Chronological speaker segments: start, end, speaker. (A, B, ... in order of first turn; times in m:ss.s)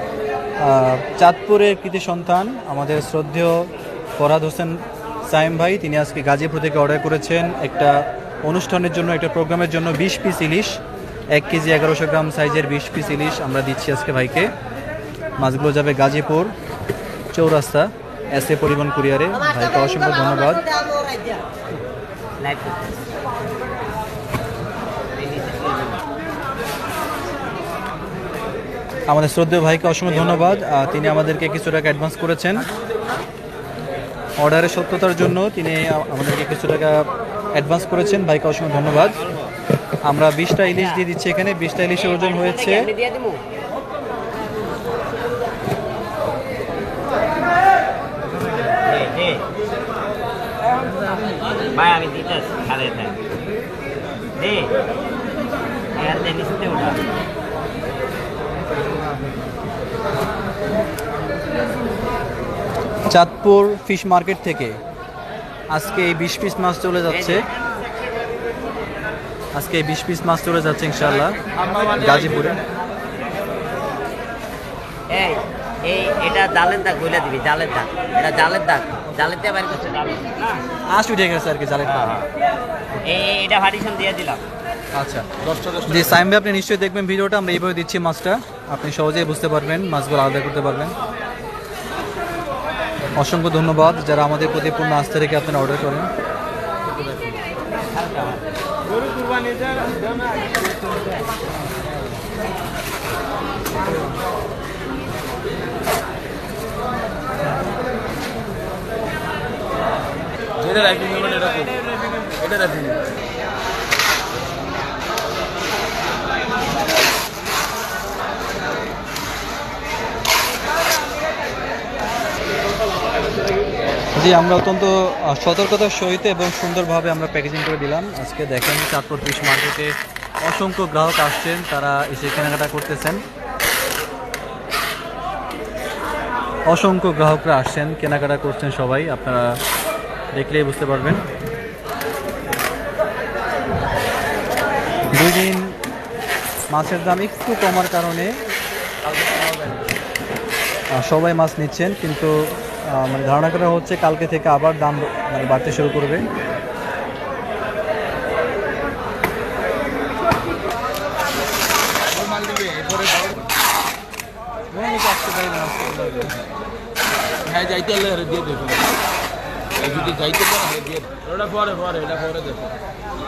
0:00.6-0:10.8 A
0:11.3-0:14.5 A
0:15.4-0:16.5 A
0:17.3-0:20.8 A
0:22.4-0:23.0 B
0:25.1-0:26.0 B
0:29.1-0:32.7 A
0:34.4-0:39.2 A
0:40.0-0:42.9 A
0:40.6-0:41.0 B
0:42.0-0:43.4 B
0:48.8-0:49.4 B
0:51.6-0:53.2 B
0:54.4-0:54.7 B
0:56.0-0:57.0 B
1:03.1-1:04.8 A
1:05.7-1:07.4 A
1:07.1-1:07.4 B
1:09.5-1:11.4 A
1:11.9-1:12.6 A
1:15.1-1:20.6 B
1:20.9-1:22.2 A
1:21.9-1:22.3 B
1:23.0-1:24.4 B
1:25.0-1:25.2 A
1:25.8-1:30.9 A
1:33.2-1:36.1 A
1:37.9-1:38.4 B
1:50.6-1:51.7 C
1:52.4-1:52.9 C
2:04.2-2:13.2 A
2:16.7-2:19.6 A
2:20.3-2:21.2 A
2:25.1-2:25.8 A
2:26.7-2:28.4 A
2:30.9-2:36.3 A
2:42.4-2:43.0 C
2:44.7-2:46.4 A
2:47.5-2:48.8 C
2:50.0-2:52.5 C